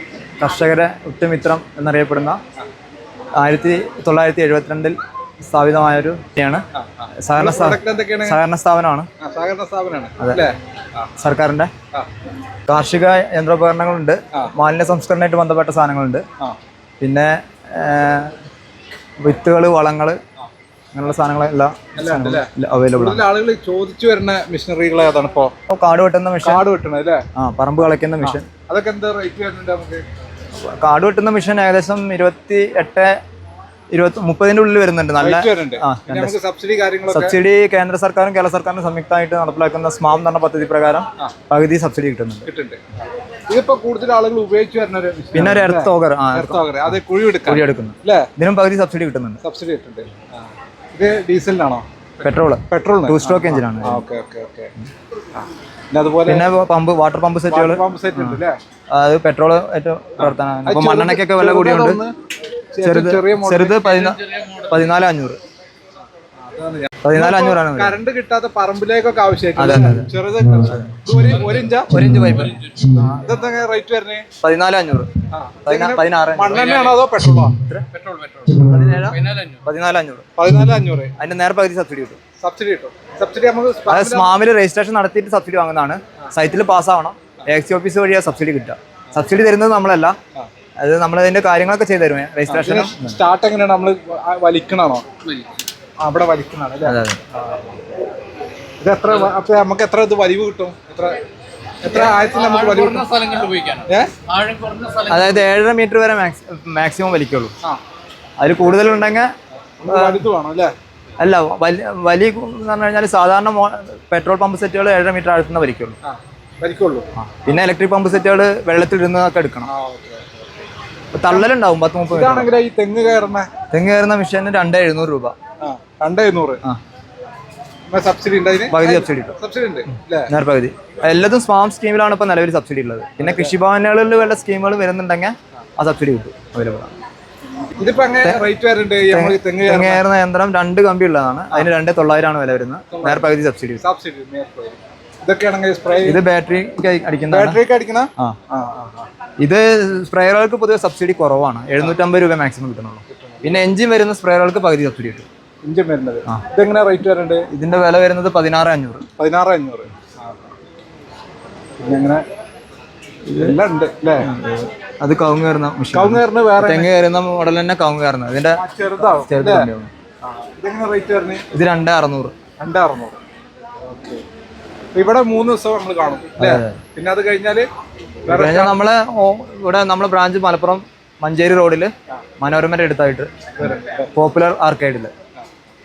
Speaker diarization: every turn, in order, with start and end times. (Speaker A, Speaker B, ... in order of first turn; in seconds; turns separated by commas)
Speaker A: 0.4-2.4, Speaker A: 3.4-6.6, Speaker B: 6.7-8.4, Speaker A: 7.2-9.1, Speaker B: 9.2-11.1, Speaker A: 10.2-10.4, Speaker A: 11.2-11.7, Speaker A: 12.7-16.2, Speaker A: 17.0-18.4, Speaker A: 19.2-20.2, Speaker A: 20.9-23.2, Speaker B: 21.9-25.5, Speaker A: 25.7-26.6, Speaker B: 26.4-27.2, Speaker A: 27.4-28.5, Speaker B: 28.2-30.0, Speaker A: 30.6-33.1, Speaker A: 33.9-36.4, Speaker B: 35.2-37.4, Speaker A: 37.1-42.5, Speaker B: 42.5-42.8, Speaker B: 43.5-48.3, Speaker A: 45.3-46.6, Speaker A: 47.5-49.4, Speaker B: 49.4-51.9, Speaker A: 52.2-54.0, Speaker B: 52.7-54.7, Speaker B: 55.4-56.5, Speaker A: 56.3-58.4, Speaker B: 57.5-58.5, Speaker A: 58.9-62.0, Speaker B: 60.2-62.1, Speaker B: 62.7-63.9, Speaker A: 62.8-65.4, Speaker C: 64.0-64.7, Speaker B: 66.4-72.0, Speaker A: 67.0-68.0, Speaker A: 69.6-70.1, Speaker A: 70.6-71.0, Speaker A: 71.8-73.2, Speaker C: 72.3-72.9, Speaker B: 73.0-74.3, Speaker A: 74.4-75.1, Speaker B: 75.3-77.6, Speaker A: 75.7-76.7, Speaker C: 76.6-77.0, Speaker A: 77.5-77.9, Speaker C: 77.9-79.6, Speaker A: 78.6-80.3, Speaker B: 80.4-81.2, Speaker A: 81.2-82.2, Speaker B: 82.4-84.3, Speaker A: 83.9-90.2, Speaker A: 90.8-93.2, Speaker B: 92.5-95.1, Speaker B: 96.0-97.8, Speaker A: 96.8-97.2, Speaker B: 98.8-101.2, Speaker B: 101.8-103.1, Speaker C: 102.1-105.4, Speaker B: 103.9-104.2, Speaker A: 105.1-107.5, Speaker A: 108.4-109.3, Speaker B: 109.8-110.7, Speaker A: 109.9-110.2, Speaker A: 111.2-116.0, Speaker B: 116.0-117.1, Speaker A: 117.2-119.7, Speaker B: 119.7-120.5, Speaker A: 121.1-122.5, Speaker B: 122.1-123.5, Speaker A: 123.7-125.3, Speaker B: 125.6-126.6, Speaker B: 127.9-130.3, Speaker A: 128.7-129.4, Speaker A: 130.3-136.9, Speaker B: 133.2-133.5, Speaker B: 137.8-140.0, Speaker A: 138.2-138.5, Speaker A: 139.1-143.8, Speaker B: 142.9-143.3, Speaker B: 143.8-146.2, Speaker A: 146.0-147.6, Speaker B: 147.3-149.1, Speaker A: 149.4-155.3, Speaker B: 153.1-153.7, Speaker B: 155.6-157.5, Speaker A: 157.5-159.0, Speaker B: 159.2-160.5, Speaker B: 161.8-162.2, Speaker A: 163.3-163.6, Speaker B: 163.4-164.3, Speaker A: 164.2-169.9, Speaker B: 165.9-166.9, Speaker B: 168.6-169.7, Speaker B: 170.2-171.4, Speaker A: 171.5-172.3, Speaker B: 172.6-173.2, Speaker B: 173.8-174.2, Speaker B: 174.9-177.7, Speaker A: 176.4-176.8, Speaker B: 178.3-178.8, Speaker A: 178.3-185.1, Speaker B: 183.6-184.1